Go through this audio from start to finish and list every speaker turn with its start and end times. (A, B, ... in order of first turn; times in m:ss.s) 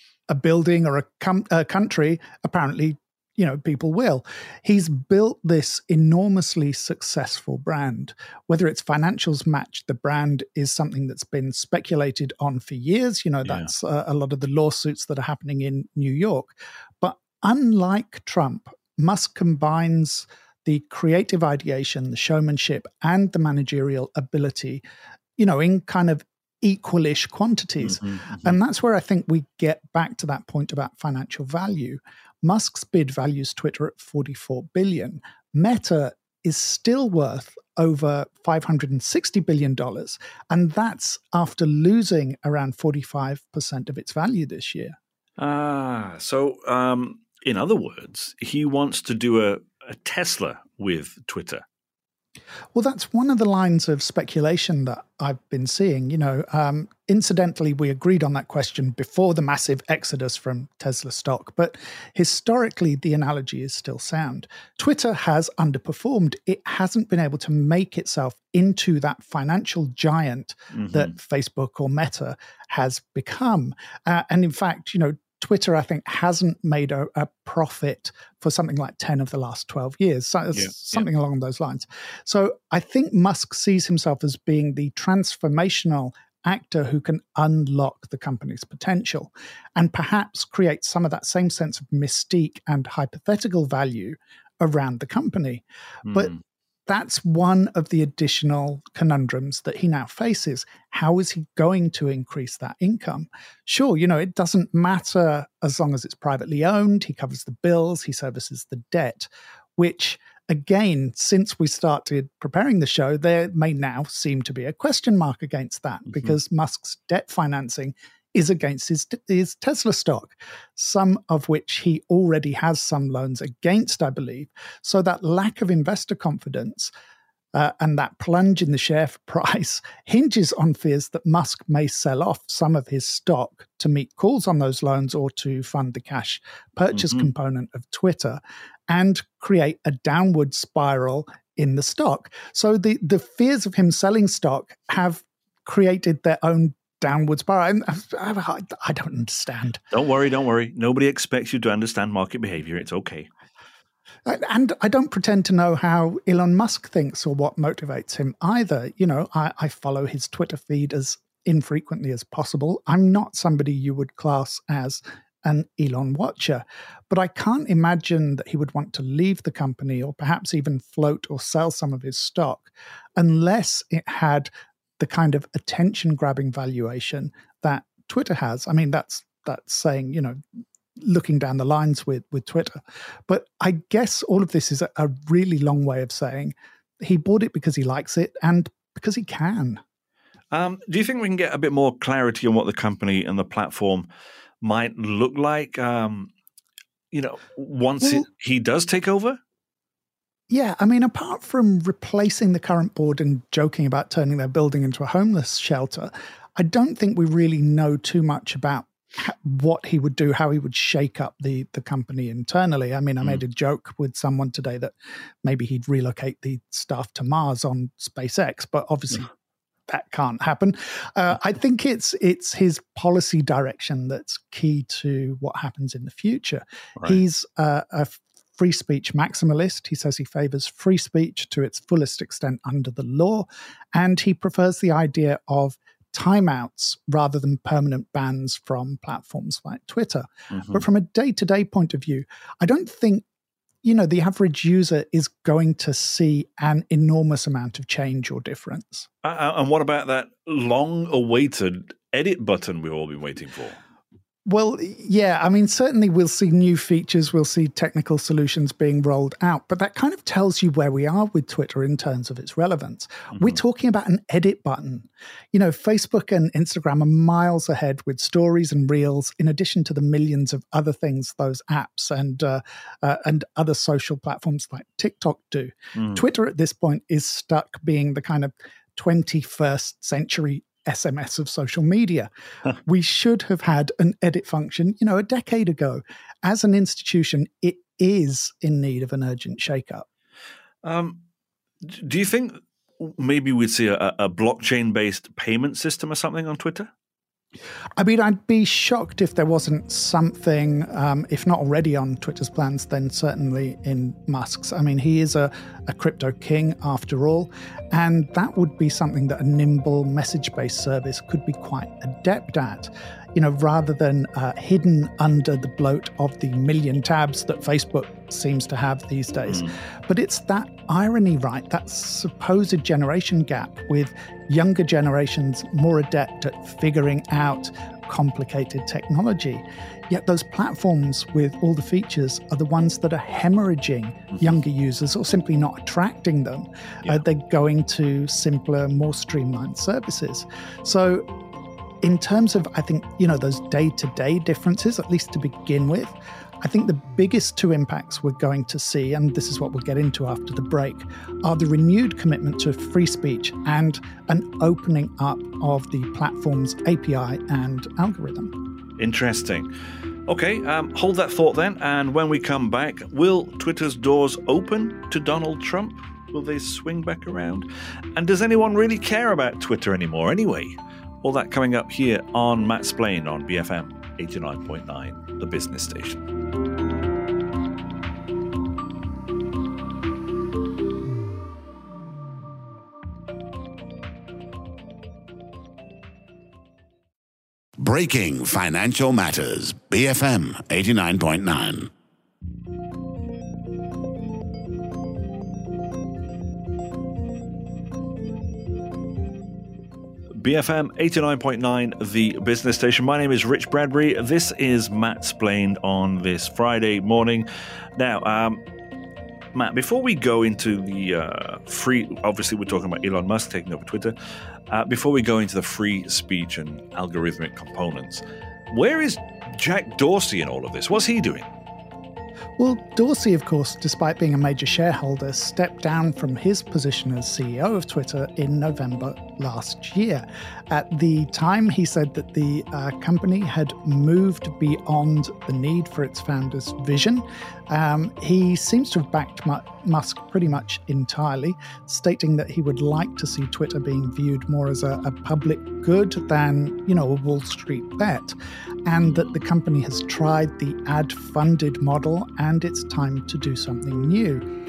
0:00.3-0:24.8 A
0:13.5-0:13.7 B
0:25.4-0:45.0 A
0:27.9-0:28.5 B
0:45.4-0:51.6 B
0:52.8-1:36.3 A
1:10.7-1:11.1 B
1:20.5-1:21.0 B
1:36.0-1:36.4 B
1:36.9-2:06.9 A
2:07.5-2:29.8 A
2:29.9-2:33.3 B
2:34.2-3:00.4 A
3:01.0-3:09.8 A
3:10.5-3:14.1 B
3:14.6-3:16.3 B
3:17.1-3:19.4 B
3:20.5-3:34.9 A
3:35.4-3:39.3 A
3:39.9-4:03.2 A
4:03.8-4:09.1 A
4:09.2-4:13.8 B
4:14.5-4:42.3 A
4:42.8-4:50.1 A
4:50.8-4:51.2 B
4:51.8-4:56.9 B
4:58.0-5:41.3 A
5:42.0-5:58.5 A
5:59.0-5:59.7 B
6:00.2-6:16.2 B
6:27.8-6:31.9 C
6:40.3-6:48.6 B
6:49.5-6:54.1 B
6:54.7-7:01.5 B
7:02.6-7:28.4 A
7:28.9-7:34.4 A